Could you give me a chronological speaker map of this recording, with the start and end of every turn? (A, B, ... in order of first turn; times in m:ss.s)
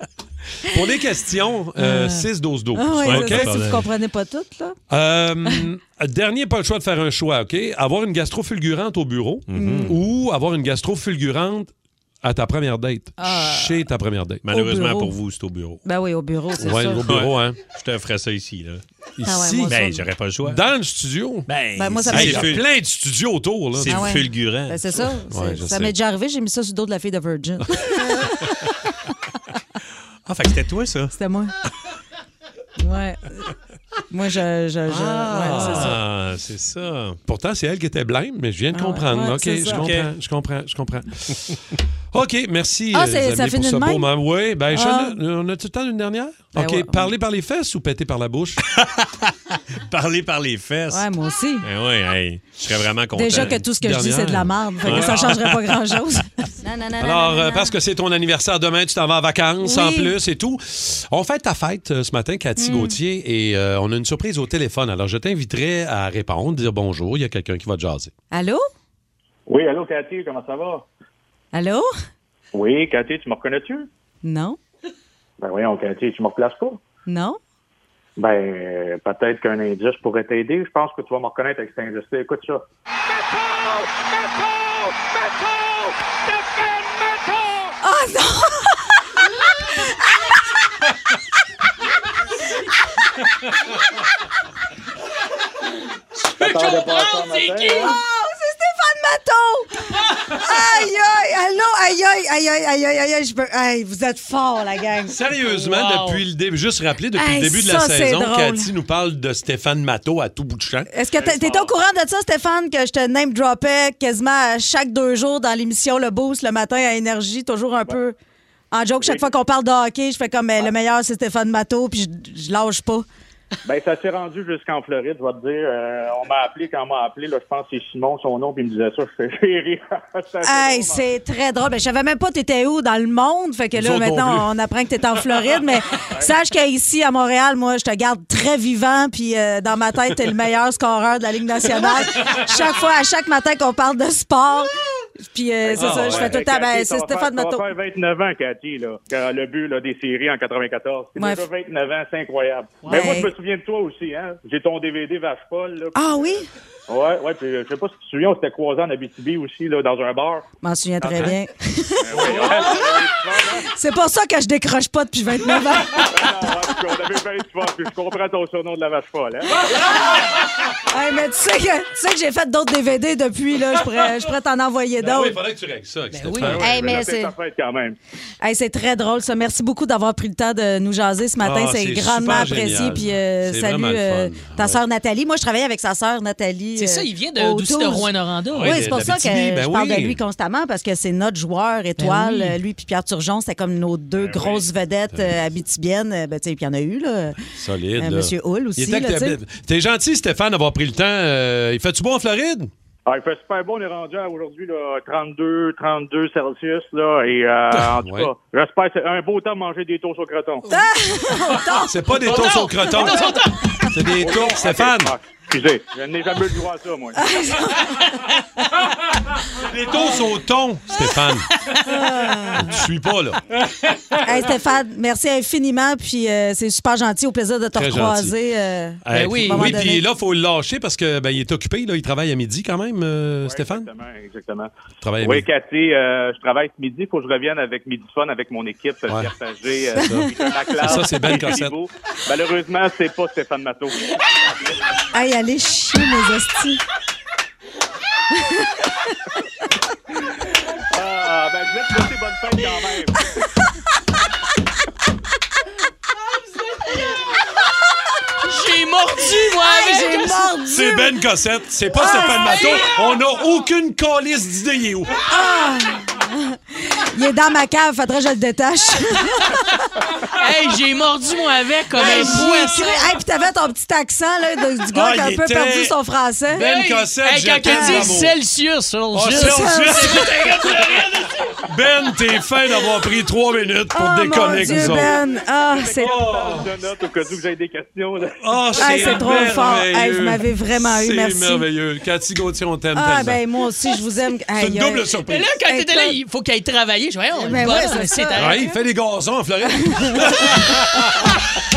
0:00.6-0:03.6 A
0:01.8-0:04.8 B
0:03.0-0:03.8 C
0:04.9-0:11.7 A
0:09.5-0:10.0 C
0:09.5-0:10.0 B
0:12.2-0:14.5 A
0:13.2-0:13.8 B
0:14.4-0:15.8 C
0:14.5-0:15.1 B
0:15.8-0:17.1 B
0:16.6-0:17.6 A
0:17.0-0:18.8 C
0:19.2-0:19.8 A
0:19.2-0:20.0 B
0:19.6-0:20.6 C
0:20.4-0:21.5 A
0:21.5-0:22.6 C
0:21.8-0:22.5 B
0:22.1-0:24.3 A
0:23.7-0:25.0 C
0:23.8-0:28.5 B
0:25.3-0:26.0 A
0:30.2-0:31.1 C
0:31.1-0:31.5 B
0:32.8-0:33.5 B
0:34.1-0:36.0 B
0:35.0-0:37.2 C
0:35.2-0:36.0 A
0:37.2-0:41.6 A
0:38.7-0:39.9 B
0:39.7-0:40.1 C
0:42.1-0:48.6 A
0:42.9-0:44.1 B
0:44.7-0:45.2 B
0:46.6-0:47.1 B
0:48.8-0:49.3 C
0:49.8-0:51.1 C
0:50.9-0:51.7 B
0:51.6-0:53.6 C
0:53.1-0:57.8 B
0:53.3-0:55.4 A
0:54.8-0:56.0 C
0:57.0-1:08.1 A
0:59.6-1:00.1 B
1:02.6-1:03.0 B
1:08.3-1:08.6 B
1:09.5-1:10.8 D
1:11.5-1:11.9 B
1:12.5-1:13.9 D
1:14.2-1:14.6 B
1:15.4-1:16.8 D
1:17.1-1:17.4 B
1:18.2-1:22.6 D
1:27.8-1:29.1 B
1:29.8-1:30.3 B
1:36.4-1:38.0 D
1:36.4-1:38.0 E
1:37.6-1:45.2 B
1:45.1-1:50.9 A
1:45.5-1:46.2 E
1:47.2-1:48.7 B
1:50.9-1:58.2 B
1:51.1-1:51.7 D
1:58.7-2:03.0 B
1:59.0-1:59.3 D
2:03.6-2:11.1 D
2:10.4-2:27.7 B
2:13.8-2:14.5 A
2:25.6-2:40.4 D
2:25.7-2:26.4 A
2:31.2-2:31.4 B
2:32.8-2:33.2 E
2:32.9-2:33.3 B
2:35.9-2:36.5 B
2:40.6-2:46.4 B
2:41.0-2:41.4 D
2:42.0-2:43.7 D
2:42.2-2:42.7 A
2:46.0-2:50.2 D
2:50.9-2:55.4 B
2:55.0-2:57.0 A
2:56.1-2:56.6 E
2:56.4-2:58.0 D
2:56.6-2:57.3 B
2:58.4-3:17.4 B
3:01.4-3:04.8 A
3:06.8-3:09.0 E
3:08.5-3:10.2 A
3:12.0-3:12.6 E
3:14.2-3:14.6 D
3:15.1-3:15.4 A
3:17.4-3:22.7 A
3:18.0-3:19.4 B
3:23.0-3:30.7 D
3:27.7-3:28.3 A
3:30.7-3:33.2 B
3:31.7-3:35.1 A
3:32.2-3:33.9 E
3:34.2-3:37.2 D
3:37.2-3:38.2 B
3:39.5-3:41.5 A
3:39.9-3:40.2 B
3:41.8-3:42.8 B
3:42.6-3:43.4 A
3:44.2-3:50.0 B
3:47.7-3:48.4 A
3:49.0-3:53.9 A
3:49.1-3:49.9 E
3:53.4-4:04.2 D
3:55.0-3:55.5 A
3:59.9-4:01.8 A
4:00.0-4:00.4 B
4:00.9-4:01.5 B
4:05.1-4:06.8 B
4:08.3-4:08.8 B
4:10.9-4:13.2 D
4:18.4-4:20.6 E
4:19.6-4:21.2 B
4:20.7-4:25.2 A
4:21.9-4:22.9 B
4:22.0-4:23.2 E
4:25.3-4:29.8 B
4:30.3-4:33.2 E
4:32.0-4:36.7 B
4:32.0-4:32.6 A
4:34.9-4:36.0 A
4:36.5-4:38.4 A
4:36.6-4:41.4 E
4:37.6-4:38.1 B
4:39.1-4:45.2 A
4:39.3-4:40.4 B
4:43.9-4:46.2 B
4:44.4-4:49.2 D
4:46.0-4:46.7 A
4:48.2-4:53.4 A
4:48.8-4:51.6 B
4:52.9-4:55.1 B
4:54.6-4:55.5 A
4:55.2-4:58.7 E
4:55.6-4:56.2 B
4:57.3-4:58.5 B
4:58.4-5:01.3 A
4:59.8-5:00.8 B